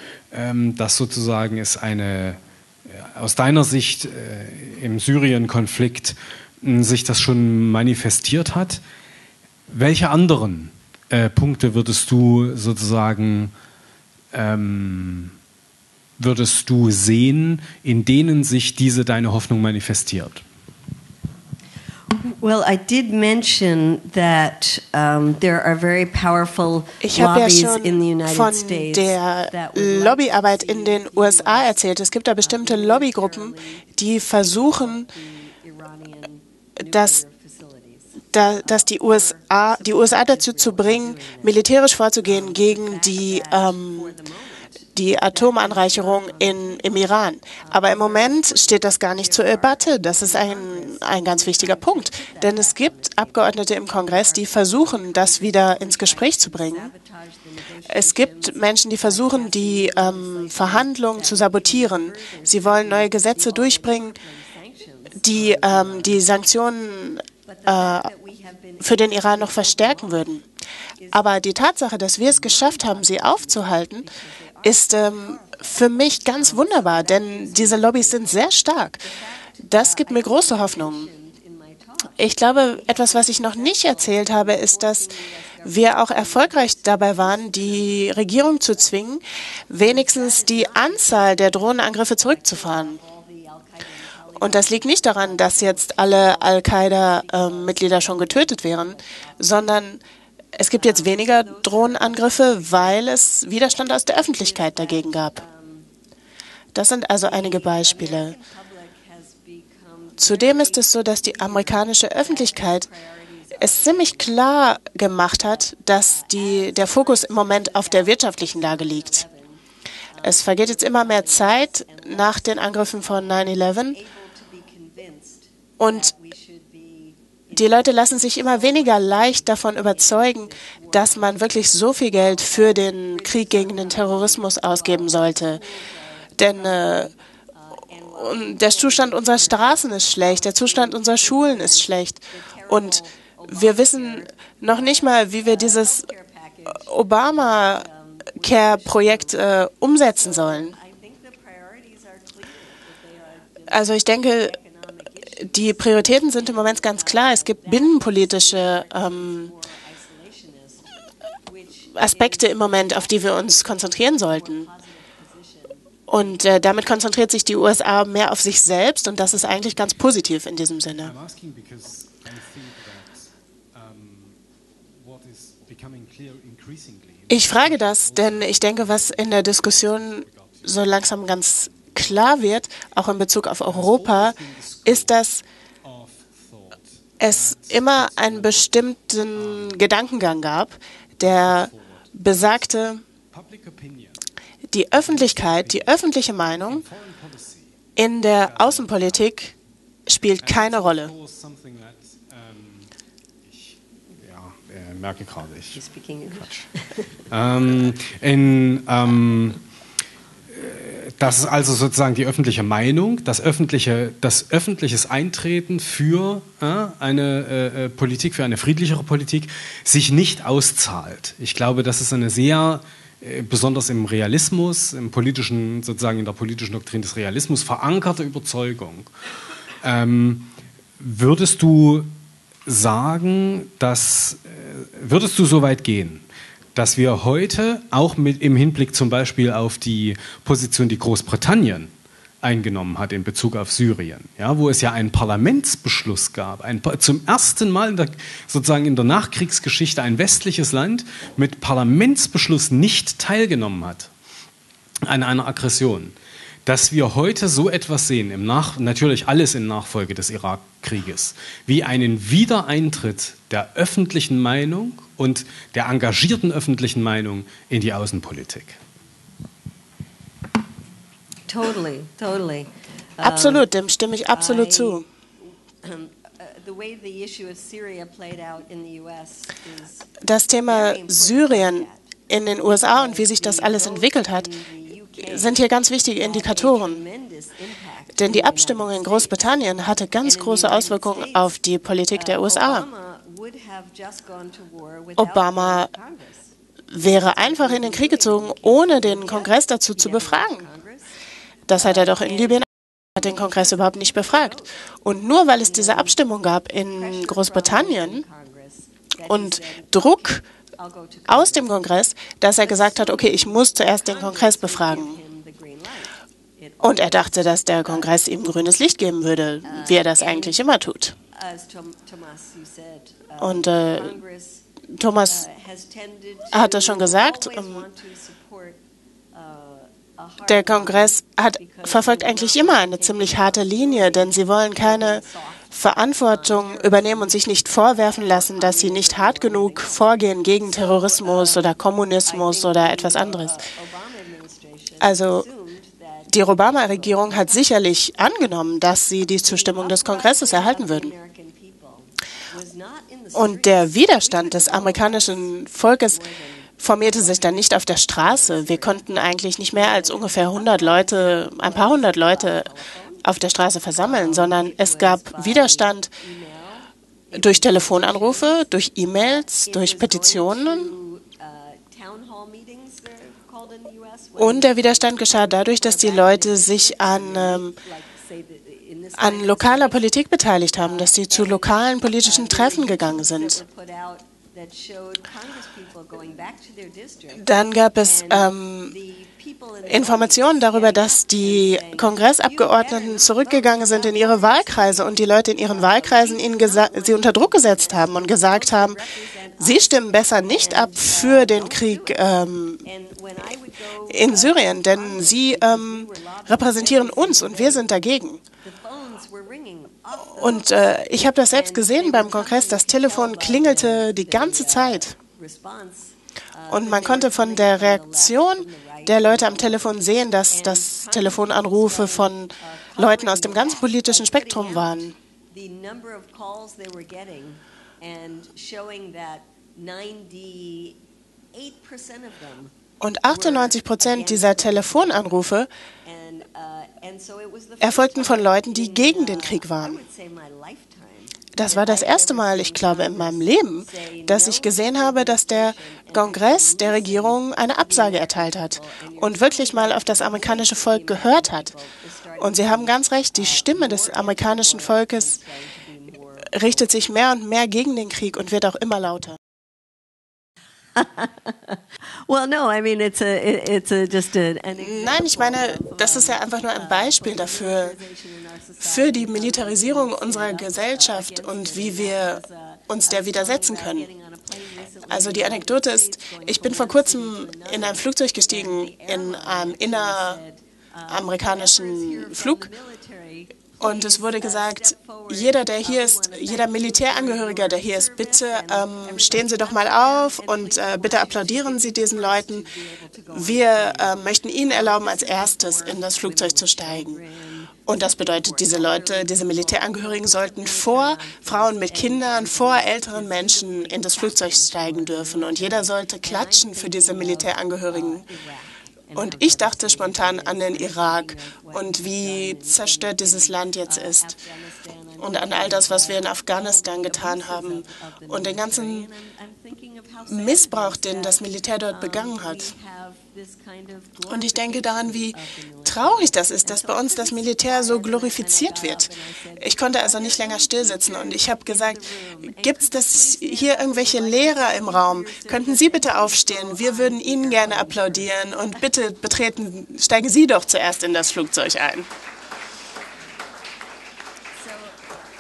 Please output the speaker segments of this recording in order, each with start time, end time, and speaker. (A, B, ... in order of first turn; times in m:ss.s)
0:00.3-0:08.8 A
0:09.7-0:13.5 A
0:14.3-0:15.3 A
0:16.2-0:20.4 A
0:22.2-0:31.8 B
0:27.0-0:35.1 C
0:32.4-0:33.9 B
0:34.8-0:41.6 B
0:36.8-0:37.2 C
0:38.3-0:44.2 C
0:42.3-0:46.9 B
0:45.0-0:56.9 C
0:47.6-1:06.2 B
0:57.9-1:04.2 C
1:05.2-1:08.1 C
1:07.5-1:10.3 B
1:08.8-1:10.4 C
1:11.1-1:14.1 C
1:12.3-1:18.5 B
1:14.6-1:19.0 C
1:19.0-1:28.2 B
1:19.6-1:21.1 C
1:22.2-1:25.1 C
1:25.6-1:33.0 C
1:29.8-1:39.5 B
1:34.4-1:40.0 C
1:40.5-1:45.4 C
1:40.7-1:43.0 B
1:44.1-1:45.9 B
1:46.7-1:48.4 C
1:47.3-1:54.3 B
1:50.2-1:52.9 C
1:53.6-1:59.2 C
1:56.0-1:59.6 B
2:00.2-2:40.9 B
2:00.2-2:04.0 C
2:05.8-2:06.1 C
2:07.5-2:15.6 C
2:16.4-2:17.1 C
2:18.1-2:26.0 C
2:26.7-2:30.7 C
2:33.7-2:34.6 C
2:35.4-2:39.5 C
2:41.5-2:46.3 B
2:41.9-2:44.7 C
2:46.1-2:51.1 C
2:51.0-2:54.4 A
2:55.0-3:00.9 A
2:57.3-3:05.4 C
3:01.6-3:02.1 A
3:03.6-3:05.1 A
3:05.8-3:08.6 A
3:07.2-3:13.0 C
3:09.4-3:09.8 A
3:11.2-3:12.6 A
3:13.3-3:14.2 A
3:14.7-3:16.8 C
3:14.9-3:16.0 A
3:16.6-3:17.7 A
3:18.0-3:19.5 C
3:18.4-3:19.3 A
3:20.1-3:21.1 C
3:20.4-3:22.9 A
3:23.4-3:25.9 A
3:25.8-3:27.1 B
3:27.3-3:29.6 A
3:30.5-3:49.1 A
3:49.8-3:52.1 A
3:52.7-4:01.9 A
4:02.4-4:14.1 A
4:15.0-4:16.1 A
4:16.7-4:28.8 A
4:31.5-4:33.7 B
4:33.2-4:35.0 C
4:34.3-4:35.0 B
4:35.8-4:42.1 B
4:40.2-4:44.5 C
4:42.6-4:45.6 B
4:45.2-4:47.0 C
4:46.2-4:49.5 B
4:48.2-4:52.9 C
4:50.2-4:51.6 B
4:52.1-4:56.5 B
4:55.2-4:55.9 C
4:56.9-5:00.7 C
4:57.2-5:01.0 B
5:01.7-5:08.2 C
5:01.7-5:02.6 B
5:03.3-5:04.5 B
5:05.6-5:06.1 B
5:06.9-5:11.8 B
5:09.3-5:10.4 C
5:11.3-5:15.2 C
5:12.6-5:17.1 B
5:16.8-5:21.2 C
5:19.6-5:20.6 B
5:21.3-5:24.6 B
5:23.4-5:24.2 C
5:24.9-5:25.4 C
5:25.3-5:28.8 B
5:26.5-5:27.9 C
5:29.3-5:37.4 B
5:30.5-5:43.6 C
5:38.0-5:40.1 B
5:40.7-5:47.7 B
5:45.0-5:45.5 C
5:46.3-5:51.1 C
5:49.3-5:59.1 B
5:53.4-5:56.2 C
5:56.8-6:02.7 C
5:59.7-6:03.2 B
6:03.2-6:06.1 C
6:04.0-6:20.1 B
6:07.3-6:10.9 C
6:14.4-6:17.8 C
6:19.2-6:23.6 C
6:20.8-6:27.5 B
6:27.4-6:29.0 C
6:28.1-6:39.8 B
6:29.9-6:39.0 C
6:39.6-6:42.8 C
6:40.4-6:42.2 B
6:42.8-6:47.9 B
6:44.1-6:48.4 C
6:48.6-6:59.8 B
6:50.4-6:55.2 C
6:56.7-7:05.2 C
7:00.5-7:11.0 B
7:11.5-7:12.7 B
7:13.0-7:15.7 C
7:13.2-7:15.4 B
7:16.0-7:36.8 B
7:17.8-7:20.0 C
7:21.5-7:31.7 C
7:32.4-7:35.4 C
7:36.5-7:39.4 C
7:41.0-8:58.4 B
7:44.8-7:48.0 C
7:48.8-7:54.1 C
7:55.1-8:00.4 C
8:01.1-8:02.7 C
8:03.8-8:12.7 C
8:13.3-8:17.2 C
8:17.9-8:28.3 C
8:29.2-8:34.3 C
8:35.2-8:39.1 C
8:40.3-8:42.7 C
8:44.3-9:02.1 C
9:04.6-9:05.0 B